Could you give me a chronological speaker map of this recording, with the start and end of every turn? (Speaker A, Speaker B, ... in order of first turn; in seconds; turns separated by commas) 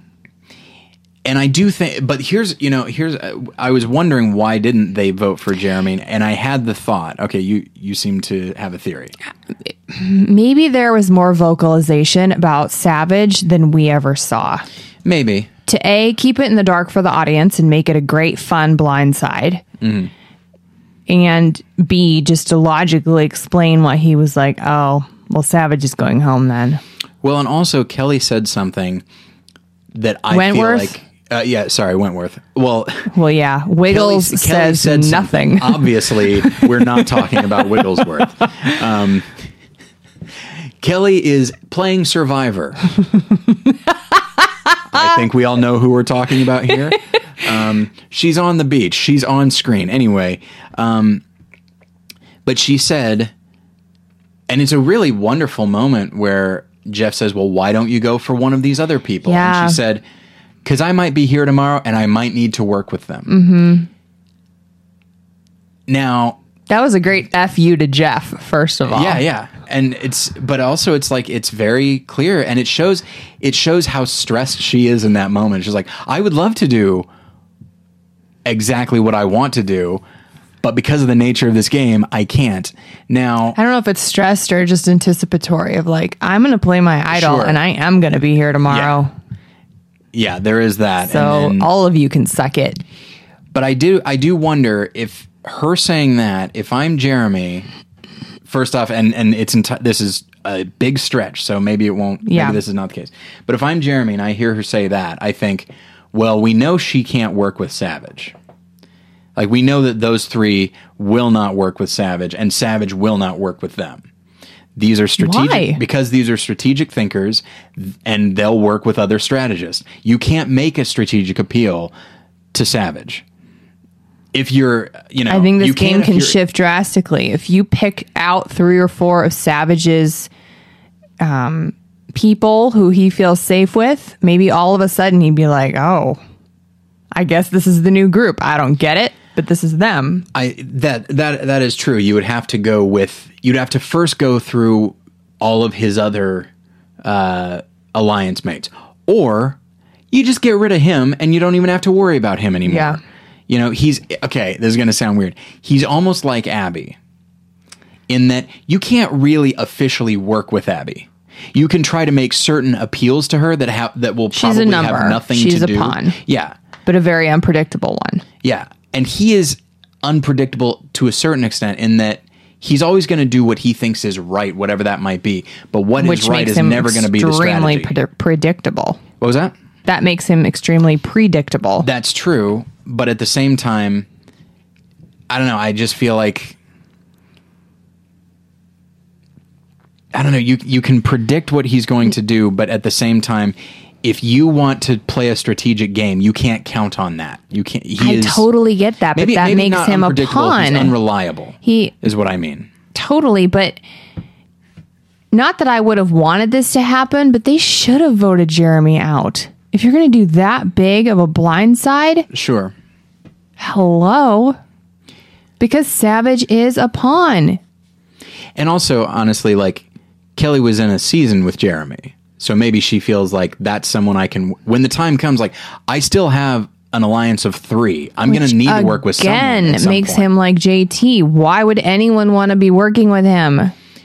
Speaker A: 1.2-9.1, Speaker B: 9.7-14.6, Speaker A: 15.0-15.5, Speaker B: 15.7-19.6, Speaker A: 19.8-20.1, Speaker B: 21.1-26.8, Speaker A: 27.2-29.0, Speaker A: 29.9-33.1, Speaker B: 30.3-30.9, Speaker B: 33.1-37.8, Speaker A: 33.9-39.3, Speaker A: 40.8-42.9, Speaker A: 44.9-51.2, Speaker A: 52.4-53.3, Speaker A: 54.5-60.0, Speaker B: 59.2-59.8, Speaker A: 60.6-63.3, Speaker B: 63.3-63.9, Speaker A: 65.9-66.4, Speaker B: 66.7-69.2, Speaker A: 68.9-77.1, Speaker A: 78.5-80.0, Speaker A: 80.6-83.6, Speaker B: 83.5-89.1, Speaker A: 87.1-87.6, Speaker A: 88.7-89.0, Speaker A: 90.1-91.7, Speaker B: 91.0-92.8, Speaker A: 93.5-97.7, Speaker A: 98.5-108.3, Speaker B: 102.2-102.6, Speaker A: 109.3-114.0, Speaker A: 114.7-121.9, Speaker B: 115.2-115.8, Speaker A: 122.5-123.2, Speaker A: 124.3-126.4, Speaker B: 125.3-130.3, Speaker B: 131.2-136.2, Speaker B: 137.1-140.2, Speaker A: 140.3-146.5, Speaker A: 147.0-149.6, Speaker A: 150.1-157.0, Speaker B: 152.7-153.0, Speaker A: 158.1-166.5, Speaker B: 164.3-166.2, Speaker B: 166.8-168.2, Speaker A: 168.4-177.9, Speaker B: 176.0-179.0, Speaker A: 179.2-179.5, Speaker B: 179.8-181.9, Speaker A: 181.8-184.1, Speaker A: 185.3-186.6, Speaker A: 190.1-198.5, Speaker B: 198.0-200.9, Speaker A: 199.1-202.7, Speaker B: 201.6-201.9, Speaker B: 202.9-203.8, Speaker B: 205.3-212.3, Speaker A: 212.3-212.7, Speaker B: 213.6-214.6, Speaker B: 215.6-217.6, Speaker A: 218.6-219.8, Speaker A: 220.3-230.3, Speaker B: 228.3-233.7